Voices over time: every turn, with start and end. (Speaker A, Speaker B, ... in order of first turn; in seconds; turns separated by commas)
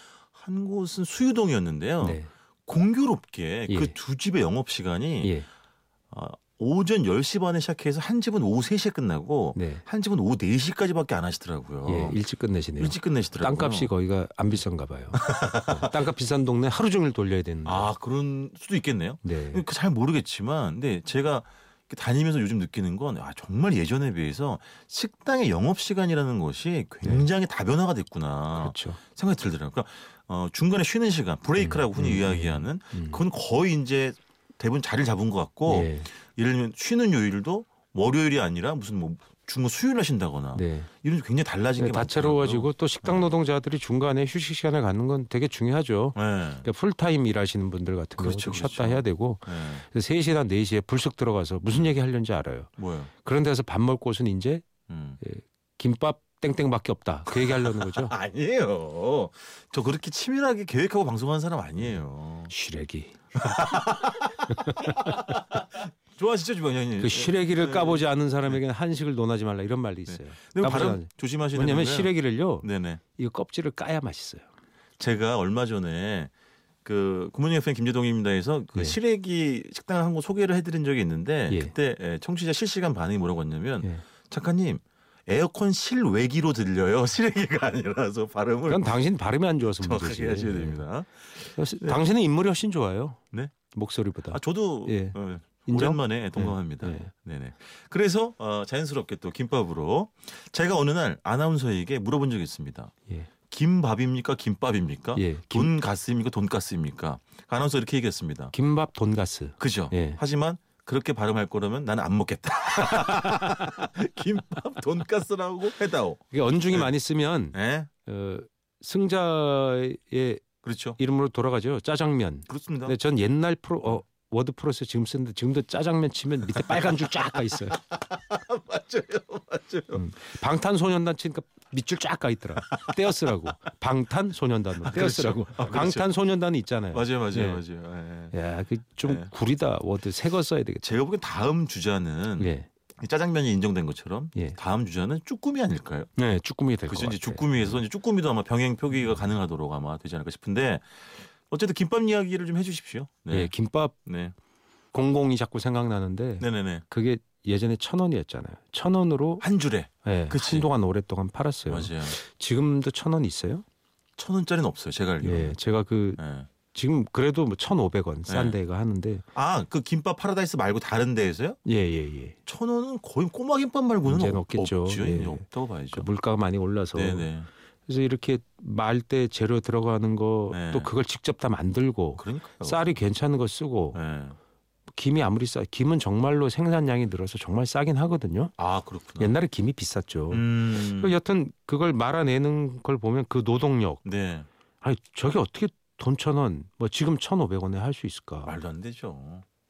Speaker A: 0.3-5.3, Speaker B: 2.0-2.3, Speaker B: 3.7-4.0, Speaker B: 5.2-5.5, Speaker A: 6.1-12.2, Speaker B: 9.5-9.8, Speaker B: 11.8-17.9, Speaker A: 12.8-13.9, Speaker A: 15.2-15.9, Speaker A: 17.6-43.3, Speaker B: 19.2-19.6, Speaker B: 28.5-29.0, Speaker B: 31.6-33.2, Speaker B: 35.7-36.1, Speaker B: 40.5-40.9, Speaker B: 41.8-52.7, Speaker A: 46.1-46.6, Speaker A: 48.2-49.8, Speaker A: 52.8-53.1, Speaker B: 53.2-54.6, Speaker A: 54.9-55.2, Speaker B: 55.2-58.1, Speaker A: 57.3-62.5, Speaker B: 62.5-63.2, Speaker A: 63.4-68.5, Speaker B: 64.5-65.2, Speaker B: 67.0-74.4, Speaker A: 70.1-73.0, Speaker A: 75.0-76.3, Speaker A: 76.8-88.9, Speaker B: 88.7-90.8, Speaker A: 89.8-92.0, Speaker B: 91.5-93.2, Speaker B: 93.7-97.1, Speaker A: 94.3-102.9, Speaker A: 103.5-108.5, Speaker B: 105.2-105.7, Speaker B: 108.5-110.2, Speaker A: 109.6-116.9, Speaker B: 116.3-120.4, Speaker A: 117.5-117.9, Speaker A: 120.6-121.0, Speaker B: 121.0-127.8, Speaker A: 122.5-122.9, Speaker A: 127.6-130.0, Speaker B: 129.9-137.6, Speaker A: 132.7-133.2, Speaker A: 134.8-136.1, Speaker A: 136.9-138.3, Speaker B: 138.3-140.8, Speaker A: 139.0-139.3, Speaker A: 140.8-146.1, Speaker B: 142.4-142.7, Speaker B: 146.2-147.8, Speaker A: 146.9-153.5, Speaker B: 153.3-154.0, Speaker A: 154.0-154.3, Speaker B: 154.9-159.4, Speaker A: 156.4-156.8, Speaker A: 159.4-160.7, Speaker B: 160.0-163.6, Speaker A: 161.7-162.2, Speaker A: 164.2-165.6, Speaker B: 165.2-166.2, Speaker A: 166.2-166.5, Speaker B: 166.7-169.2, Speaker A: 168.3-168.6, Speaker A: 169.3-171.6, Speaker B: 171.7-172.4, Speaker A: 172.4-176.1, Speaker B: 174.0-177.3, Speaker A: 176.9-177.5, Speaker B: 177.9-184.0, Speaker A: 180.5-180.9, Speaker A: 182.2-183.0, Speaker A: 183.9-184.4, Speaker B: 184.9-188.5, Speaker A: 188.6-189.3, Speaker B: 189.2-194.0, Speaker A: 190.3-191.1, Speaker A: 194.0-194.5, Speaker B: 194.8-198.5, Speaker A: 198.4-199.4